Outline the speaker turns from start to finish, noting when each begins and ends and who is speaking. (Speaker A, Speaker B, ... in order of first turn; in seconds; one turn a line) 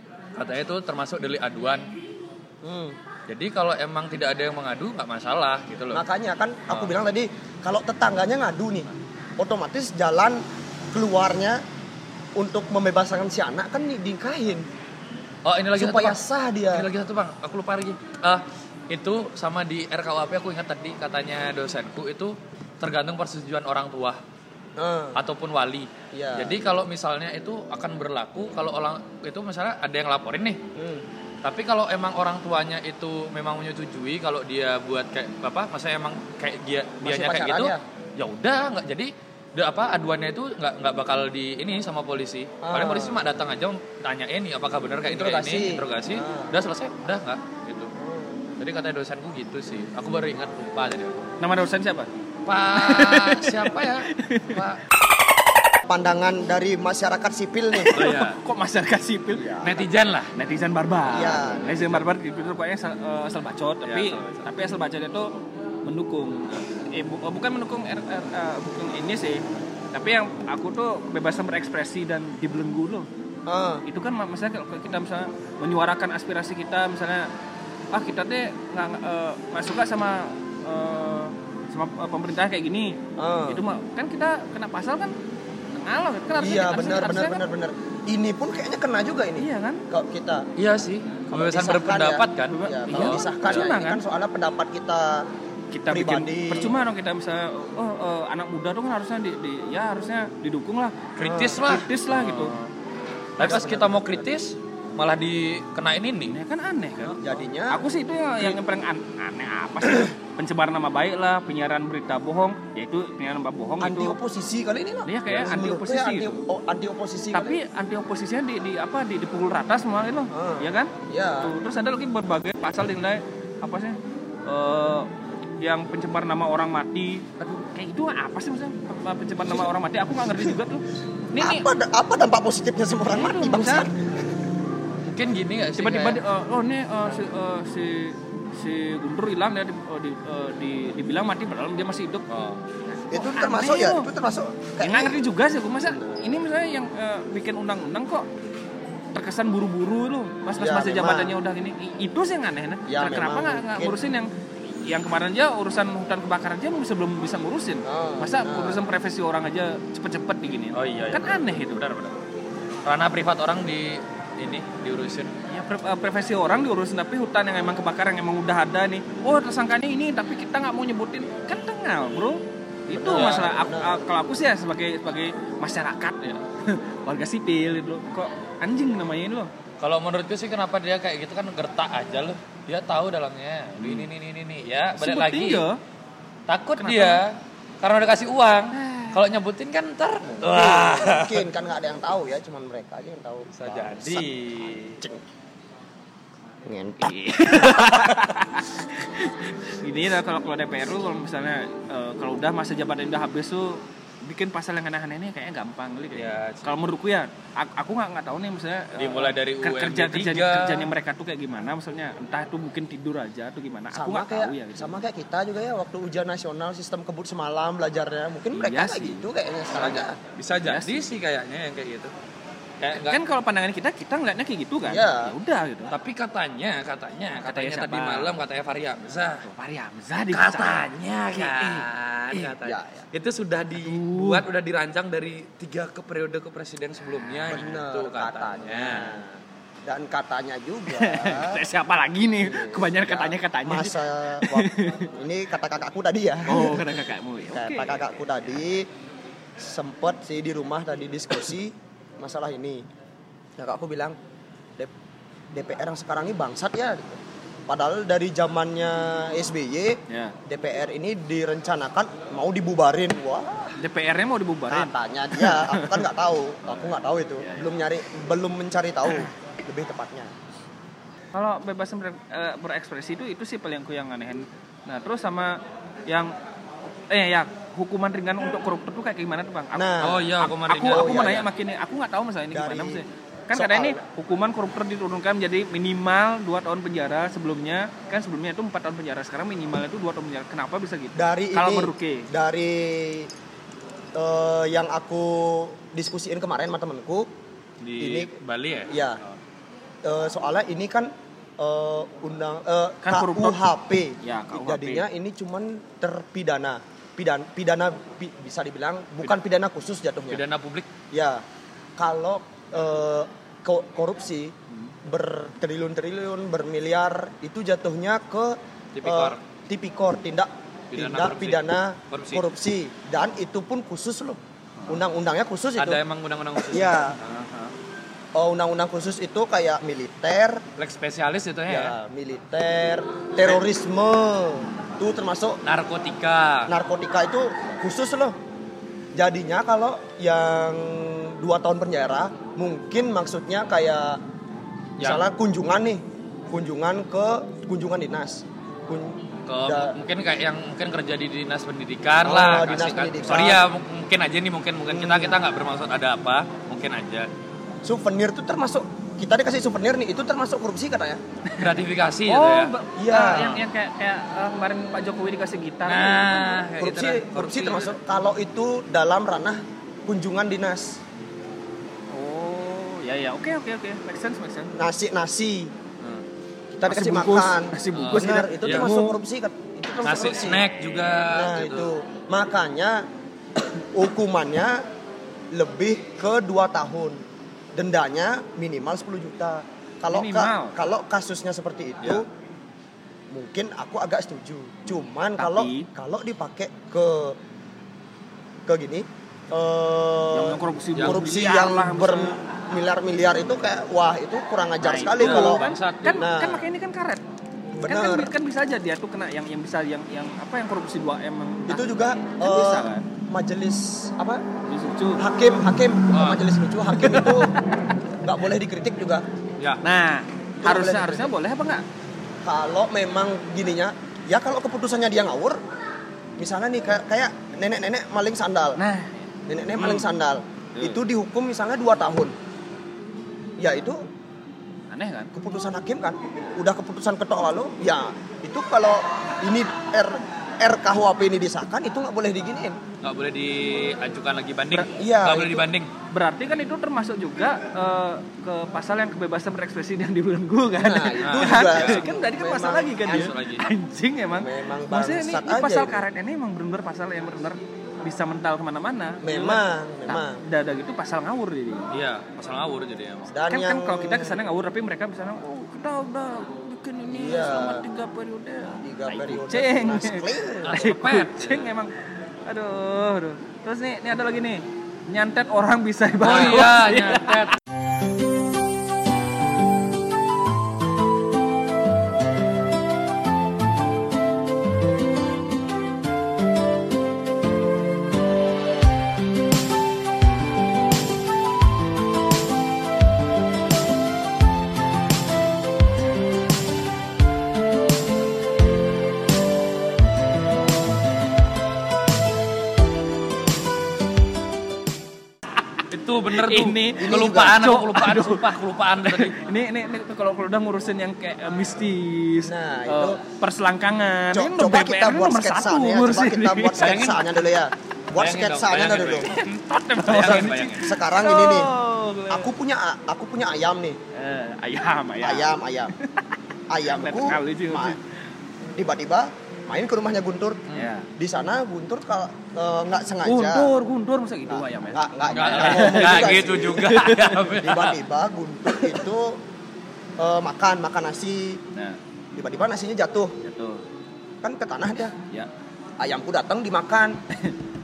Speaker A: 0.4-1.9
Speaker B: 2.6-3.0
Speaker A: 3.3-6.0
Speaker B: 5.9-11.6
Speaker B: 12.4-14.7
Speaker A: 15.4-24.2
Speaker B: 15.8-16.9
Speaker B: 24.8-25.2
Speaker A: 25.1-30.6
Speaker B: 26.1-26.6
Speaker B: 30.8-31.0
Speaker A: 31.4-47.9
Speaker B: 37.0-37.8
Speaker B: 42.6-43.2
Speaker B: 45.1-46.5
Speaker B: 48.0-48.4
Speaker A: 48.6-51.3
Speaker C: 51.4-52.1
Speaker A: 52.5-54.8
Speaker C: 52.8-54.6
Speaker B: 55.9-58.0
Speaker C: 57.8-59.5
Speaker A: 57.9-58.4
Speaker B: 59.3-59.9
Speaker A: 59.6-60.3
Speaker C: 60.4-65.3
Speaker B: 61.0-62.0
Speaker A: 63.9-64.4
Speaker C: 65.8-73.1
Speaker B: 73.5-73.8
Speaker C: 73.9-77.3
Speaker C: 77.9-85.1
Speaker B: 83.2-83.6
Speaker C: 85.7-87.4
Speaker B: 86.4-90.5
Speaker C: 89.4-89.8
Speaker A: 90.6-93.6
Speaker B: 91.3-95.2
Speaker C: 92.5-94.0
Speaker C: 95.7-100.9
Speaker B: 95.9-96.8
Speaker A: 101.2-102.7
Speaker B: 101.2-101.6
Speaker C: 101.5-102.5
Speaker A: 103.4-106.4
Speaker B: 103.4-104.2
Speaker C: 106.3-114.2
Speaker B: 107.2-107.8
Speaker B: 109.8-110.1
Speaker B: 113.8-117.6
Speaker C: 115.0-116.4
Speaker C: 117.3-131.7
Speaker B: 120.3-121.5
Speaker B: 131.4-133.9
Speaker C: 133.1-133.9
Speaker A: 135.1-136.2
Speaker C: 135.8-142.3
Speaker A: 142.3-142.6
Speaker C: 142.9-144.1
Speaker B: 143.1-145.2
Speaker C: 144.8-148.3
Speaker B: 145.8-146.2
Speaker C: 149.1-154.3
Speaker B: 150.5-151.3
Speaker B: 152.9-153.9
Speaker C: 154.8-161.8
Speaker B: 157.9-158.8
Speaker A: 160.7-162.2
Speaker A: 162.8-165.3
Speaker C: 165.5-179.5
Speaker B: 172.9-174.0
Speaker A: 172.9-173.5
Speaker A: 179.8-185.7
Speaker C: 183.8-184.1
Speaker C: 185.0-185.8
Speaker A: 186.5-191.4
Speaker C: 186.8-187.2
Speaker C: 188.7-189.2
Speaker B: 190.2-195.2
Speaker A: 193.5-195.0
Speaker B: 196.7-197.2
Speaker C: 197.0-215.0
Speaker A: 206.1-206.8
Speaker A: 208.9-210.9
Speaker B: 213.9-220.2
Speaker C: 218.5-219.2
Speaker A: 219.7-222.1
Speaker C: 220.6-221.0
Speaker A: 222.8-223.2
Speaker C: 222.9-225.9
Speaker B: 224.8-225.3
Speaker A: 225.9-229.4
Speaker C: 227.4-228.3
Speaker C: 229.4-232.5
Speaker A: 230.3-239.2
Speaker B: 232.6-233.1
Speaker C: 233.8-234.4
Speaker B: 237.5-241.6
Speaker C: 240.9-245.1
Speaker B: 242.4-246.9
Speaker C: 246.5-248.1
Speaker B: 247.5-248.9
Speaker B: 249.6-252.8
Speaker B: 253.6-254.2
Speaker B: 255.5-263.8
Speaker C: 260.1-260.4
Speaker C: 263.8-266.1
Speaker B: 264.7-270.3
Speaker C: 266.6-267.7
Speaker C: 271.3-276.3
Speaker C: 277.1-292.3
Speaker B: 279.7-280.2
Speaker A: 280.0-281.4
Speaker B: 280.9-281.5
Speaker B: 282.5-284.0
Speaker B: 291.1-293.3
Speaker B: 294.1-297.3
Speaker A: 297.8-298.9
Speaker B: 298.0-298.4
Speaker B: 298.9-299.2
Speaker B: 300.0-310.4
Speaker C: 303.0-303.6
Speaker C: 304.2-305.1
Speaker A: 310.3-310.9
Speaker B: 311.1-311.4
Speaker B: 312.0-326.0
Speaker A: 318.9-319.4
Speaker A: 320.9-322.4
Speaker A: 325.8-327.7
Speaker B: 326.7-327.2
Speaker B: 328.4-330.6
Speaker A: 330.8-331.9
Speaker B: 331.7-335.6
Speaker A: 335.6-336.7
Speaker B: 336.7-338.4
Speaker B: 339.1-344.2
Speaker B: 345.0-349.9
Speaker A: 349.5-357.3
Speaker B: 352.2-353.6
Speaker B: 354.9-355.4
Speaker B: 357.8-361.2
Speaker A: 361.6-363.6
Speaker C: 362.3-366.6
Speaker B: 363.0-363.6
Speaker A: 365.9-367.9
Speaker B: 366.8-371.0
Speaker C: 372.1-374.7
Speaker B: 374.7-375.7
Speaker A: 376.0-376.2
Speaker B: 376.7-380.6
Speaker C: 376.9-379.2
Speaker A: 377.9-378.9
Speaker A: 380.0-381.9
Speaker B: 381.3-383.0
Speaker B: 383.9-384.8
Speaker B: 385.5-387.2
Speaker B: 387.8-392.3
Speaker C: 390.1-390.7
Speaker B: 393.3-397.4
Speaker C: 394.9-395.9
Speaker B: 398.6-405.6
Speaker C: 400.3-402.4
Speaker A: 400.9-401.2
Speaker C: 404.8-407.2
Speaker A: 405.1-406.2
Speaker B: 406.2-406.7
Speaker B: 407.8-408.3
Speaker C: 407.9-413.1
Speaker B: 411.7-414.4
Speaker C: 414.6-415.2
Speaker B: 415.2-417.6
Speaker A: 416.1-416.4
Speaker C: 417.0-417.5
Speaker B: 418.2-419.2
Speaker C: 419.8-421.8
Speaker B: 420.6-421.3
Speaker B: 422.4-425.6
Speaker B: 426.4-428.8
Speaker C: 428.8-429.2
Speaker B: 429.5-432.4
Speaker B: 433.6-434.0
Speaker C: 434.9-435.3
Speaker B: 435.3-442.8
Speaker A: 443.0-445.9
Speaker B: 444.7-445.6
Speaker C: 446.1-461.9
Speaker B: 450.8-453.3
Speaker A: 451.2-452.1
Speaker A: 453.1-453.7
Speaker B: 454.4-456.0
Speaker B: 459.2-460.4
Speaker A: 461.9-463.3
Speaker B: 463.3-464.4
Speaker C: 463.5-471.9
Speaker B: 467.1-467.9
Speaker B: 468.8-470.8
Speaker A: 470.6-471.7
Speaker C: 472.4-477.5
Speaker A: 476.2-477.6
Speaker A: 505.9-509.4
Speaker C: 506.3-508.5
Speaker B: 507.0-507.6
Speaker C: 509.0-517.0
Speaker B: 512.4-513.2
Speaker B: 514.3-519.3
Speaker A: 516.8-517.2
Speaker A: 518.2-519.4
Speaker C: 519.2-522.5
Speaker A: 520.0-520.9
Speaker B: 520.1-521.7
Speaker B: 522.3-524.0
Speaker C: 524.1-528.0
Speaker B: 525.2-525.9
Speaker B: 526.7-528.0
Speaker B: 528.8-530.6
Speaker C: 530.7-531.1
Speaker B: 531.2-533.7
Speaker C: 533.2-537.4
Speaker B: 534.5-536.9
Speaker A: 535.2-538.0
Speaker B: 537.6-539.4
Speaker B: 540.2-541.6
Speaker B: 542.4-543.4
Speaker C: 543.4-543.8
Speaker B: 544.4-545.2
Speaker B: 546.0-547.2